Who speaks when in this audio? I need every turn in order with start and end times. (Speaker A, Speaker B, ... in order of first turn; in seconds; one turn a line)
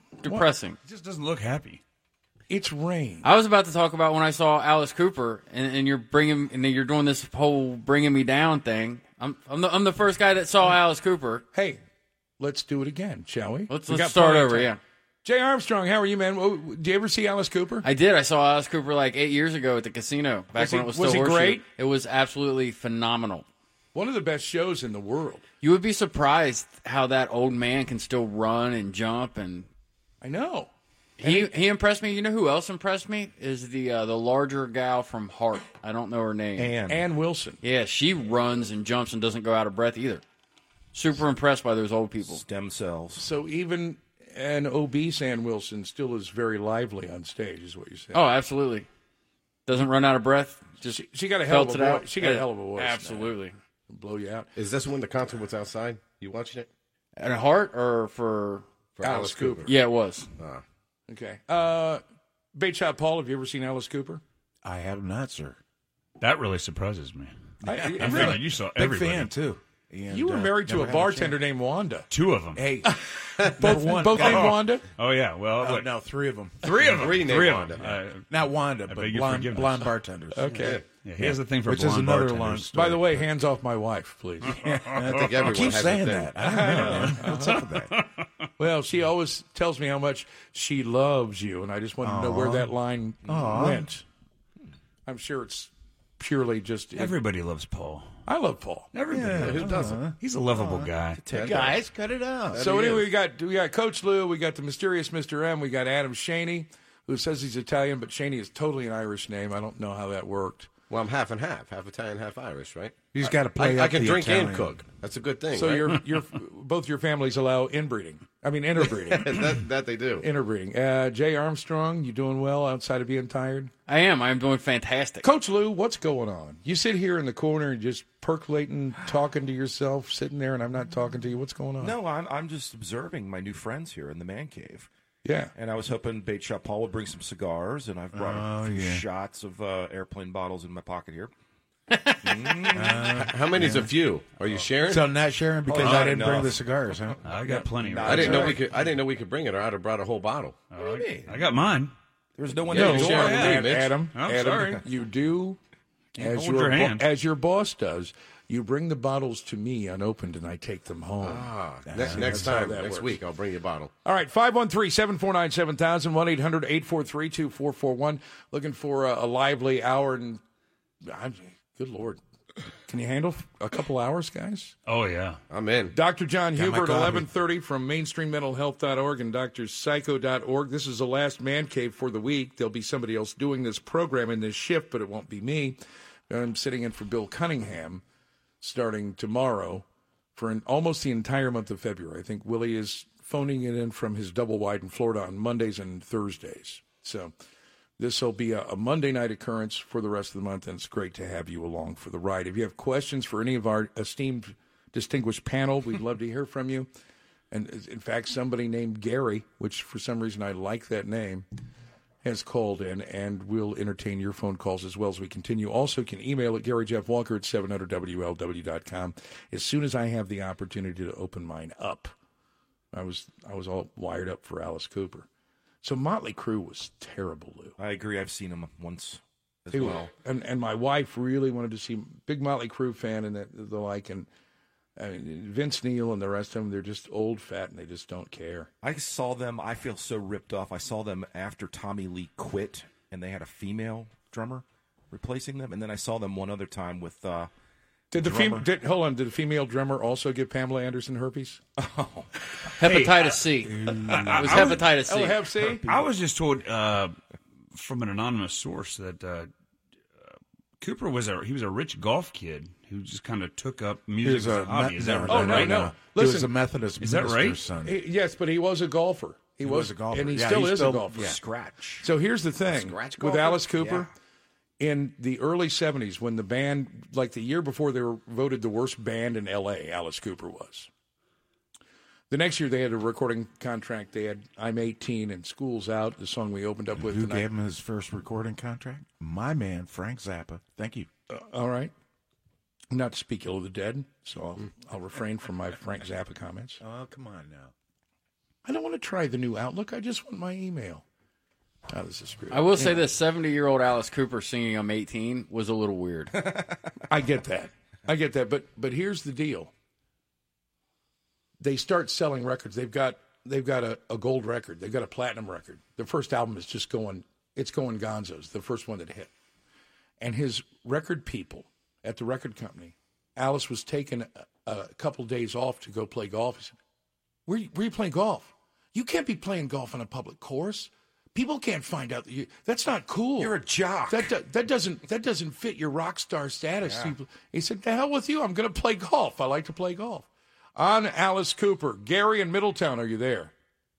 Speaker A: 0.2-0.8
Speaker B: 0.8-1.8
Speaker C: 2.5-3.3
Speaker A: 3.2-11.4
Speaker C: 11.5-11.8
Speaker C: 12.4-14.7
Speaker A: 13.7-14.8
Speaker C: 15.2-17.9
Speaker A: 17.8-23.5
Speaker C: 20.6-21.6
Speaker C: 23.9-25.4
Speaker A: 25.6-29.7
Speaker C: 30.2-30.7
Speaker A: 31.2-36.7
Speaker C: 31.2-31.5
Speaker D: 36.6-37.0
Speaker C: 36.9-37.6
Speaker A: 37.6-40.2
Speaker A: 40.9-42.4
Speaker D: 42.2-43.2
Speaker C: 43.2-48.2
Speaker A: 48.1-48.9
Speaker A: 49.7-53.5
Speaker C: 50.9-53.3
Speaker C: 53.9-54.5
Speaker E: 54.6-56.7
Speaker A: 57.2-58.6
Speaker E: 59.0-59.7
Speaker C: 59.0-59.7
Speaker A: 59.6-60.3
Speaker E: 60.4-60.6
Speaker C: 61.1-62.0
Speaker C: 62.6-64.2
Speaker F: 64.6-65.6
Speaker B: 66.2-67.3
Speaker C: 67.6-68.4
Speaker F: 67.6-71.4
Speaker B: 67.9-69.3
Speaker C: 70.1-73.0
Speaker B: 72.1-72.6
Speaker C: 73.6-74.8
Speaker F: 73.6-74.7
Speaker B: 74.2-76.0
Speaker F: 75.6-77.0
Speaker B: 76.6-78.3
Speaker E: 76.8-77.9
Speaker F: 78.3-83.2
Speaker B: 78.9-79.9
Speaker C: 80.3-80.8
Speaker B: 80.8-82.7
Speaker C: 82.7-84.6
Speaker F: 84.7-88.0
Speaker B: 84.7-85.2
Speaker E: 85.0-86.4
Speaker C: 86.4-87.7
Speaker B: 86.8-88.0
Speaker C: 88.6-94.0
Speaker F: 92.0-92.7
Speaker F: 93.3-93.9
Speaker C: 95.0-97.2
Speaker B: 97.0-98.2
Speaker C: 98.3-98.9
Speaker B: 98.9-101.2
Speaker F: 99.1-102.6
Speaker E: 99.3-100.0
Speaker E: 101.3-101.8
Speaker D: 101.3-101.7
Speaker E: 102.5-103.1
Speaker C: 102.5-110.7
Speaker E: 110.9-116.0
Speaker F: 113.1-114.8
Speaker C: 115.5-119.6
Speaker E: 118.8-120.3
Speaker C: 120.2-123.7
Speaker A: 123.9-125.3
Speaker C: 125.2-131.9
Speaker D: 131.8-134.9
Speaker C: 135.2-135.5
Speaker D: 135.5-141.3
Speaker F: 138.1-139.0
Speaker D: 142.2-143.0
Speaker F: 142.7-143.9
Speaker E: 143.1-145.1
Speaker F: 144.8-147.2
Speaker D: 145.7-146.7
Speaker B: 147.2-148.6
Speaker D: 147.3-148.6
Speaker E: 148.0-150.6
Speaker B: 150.7-151.9
Speaker D: 150.8-151.3
Speaker D: 152.4-153.5
Speaker E: 152.7-154.0
Speaker C: 152.7-155.6
Speaker B: 152.8-154.8
Speaker B: 156.2-157.1
Speaker C: 156.2-161.5
Speaker E: 161.2-163.9
Speaker F: 161.9-162.5
Speaker C: 162.1-163.2
Speaker C: 164.0-170.4
Speaker C: 171.0-172.2
Speaker C: 172.9-174.7
Speaker B: 174.9-175.4
Speaker E: 175.5-175.9
Speaker C: 175.9-188.0
Speaker F: 176.5-177.3
Speaker C: 188.6-197.3
Speaker C: 198.0-206.9
Speaker C: 207.5-211.5
Speaker C: 212.2-222.1
Speaker C: 222.9-225.3
Speaker C: 225.8-227.7
Speaker D: 227.8-230.1
Speaker C: 229.7-234.3
Speaker C: 235.0-238.7
Speaker D: 238.8-247.5
Speaker C: 248.1-251.6
Speaker F: 248.2-248.6
Speaker A: 252.8-255.4
Speaker B: 252.8-253.4
Speaker F: 253.7-254.3
Speaker C: 254.1-255.8
Speaker B: 254.2-254.7
Speaker B: 255.8-257.2
Speaker B: 257.7-259.5
Speaker B: 260.3-265.8
Speaker F: 264.2-268.0
Speaker C: 265.3-266.5
Speaker B: 267.0-267.6
Speaker C: 267.8-271.4
Speaker F: 269.6-272.1
Speaker C: 272.0-274.1
Speaker D: 272.7-274.1
Speaker C: 274.8-280.9
Speaker C: 282.3-287.5
Speaker F: 286.9-291.1
Speaker C: 291.3-291.9
Speaker C: 292.9-296.8
Speaker F: 296.8-297.7
Speaker C: 298.6-301.0
Speaker C: 301.9-303.1
Speaker A: 302.5-306.4
Speaker C: 307.1-309.7
Speaker C: 311.6-319.3
Speaker C: 320.2-326.8
Speaker C: 327.5-343.5
Speaker D: 333.4-334.3
Speaker D: 336.9-337.1